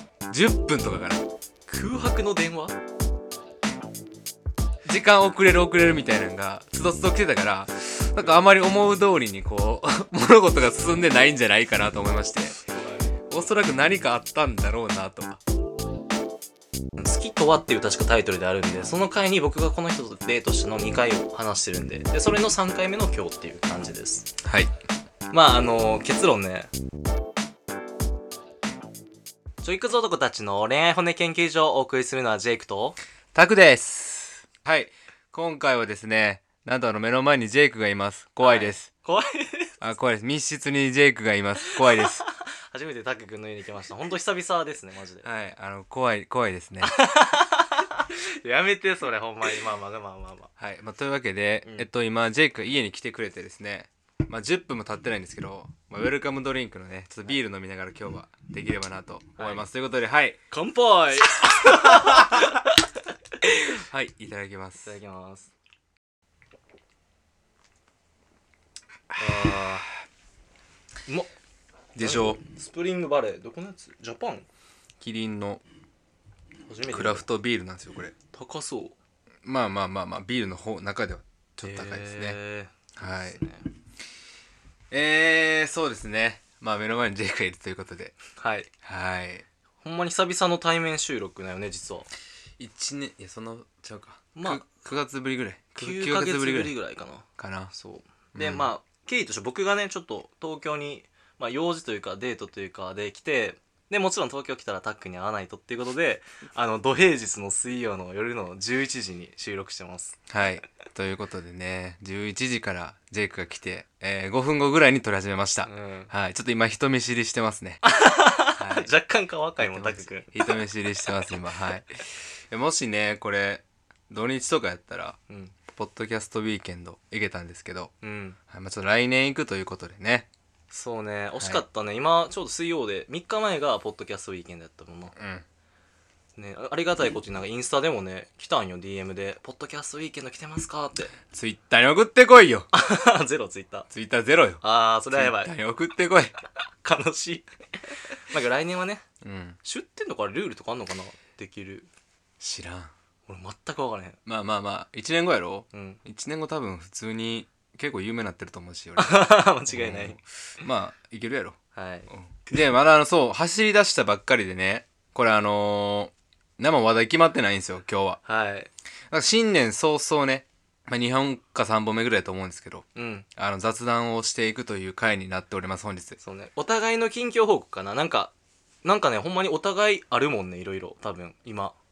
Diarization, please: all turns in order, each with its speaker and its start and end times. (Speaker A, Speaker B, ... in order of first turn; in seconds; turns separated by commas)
Speaker A: 0.3-1.2, Speaker B: 1.7-2.7, Speaker A: 4.8-12.6, Speaker B: 12.6-13.1, Speaker A: 13.3-15.4, Speaker B: 17.0-24.3, Speaker A: 24.4-24.7, Speaker B: 25.3-26.7, Speaker B: 29.6-33.0, Speaker A: 33.3-38.9, Speaker B: 38.4-39.8, Speaker A: 39.8-42.2, Speaker B: 41.7-45.3, Speaker A: 45.2-46.9, Speaker B: 46.8-50.5, Speaker A: 50.6-60.4, Speaker B: 59.4-59.6, Speaker B: 60.5-62.8, Speaker A: 61.4-62.4, Speaker A: 63.4-64.9, Speaker B: 64.8-65.5, Speaker A: 69.1-69.7, Speaker B: 69.2-69.9, Speaker A: 71.9-72.4, Speaker B: 72.0-74.5, Speaker A: 75.0-75.6, Speaker B: 76.7-77.3, Speaker A: 76.9-78.1, Speaker B: 78.3-79.0, Speaker A: 79.4-82.4, Speaker B: 81.6-83.7, Speaker A: 83.0-83.4, Speaker A: 84.9-88.2, Speaker B: 88.4-88.7, Speaker A: 88.8-89.4, Speaker B: 89.8-92.1, Speaker A: 92.6-96.7, Speaker B: 94.3-94.7, Speaker B: 95.8-110.2, Speaker A: 97.4-97.7, Speaker A: 98.3-98.7, Speaker A: 110.3-117.8, Speaker B: 115.7-116.1, Speaker B: 117.8-120.3, Speaker A: 118.6-118.9, Speaker A: 119.6-122.0, Speaker A: 122.5-127.9, Speaker B: 125.3-125.5, Speaker B: 128.0-128.4, Speaker A: 128.5-130.3, Speaker B: 130.7-135.1, Speaker A: 135.2-135.4, Speaker B: 136.4-141.1, Speaker A: 141.2-142.7, Speaker B: 142.7-143.9, Speaker A: 143.9-146.3, Speaker B: 144.6-145.5, Speaker B: 146.8-147.5, Speaker B: 148.3-149.0, Speaker A: 149.2-149.6, Speaker B: 149.6-151.9, Speaker A: 152.4-152.9, Speaker B: 153.3-154.2, Speaker A: 154.2-161.6, Speaker B: 155.7-156.0, Speaker B: 159.0-160.2, Speaker B: 161.7-162.1, Speaker A: 162.1-168.2, Speaker B: 168.2-168.7, Speaker A: 169.1-172.8, Speaker B: 172.9-173.3, Speaker A: 173.4-176.2, Speaker B: 176.2-178.3, Speaker B: 178.8-181.8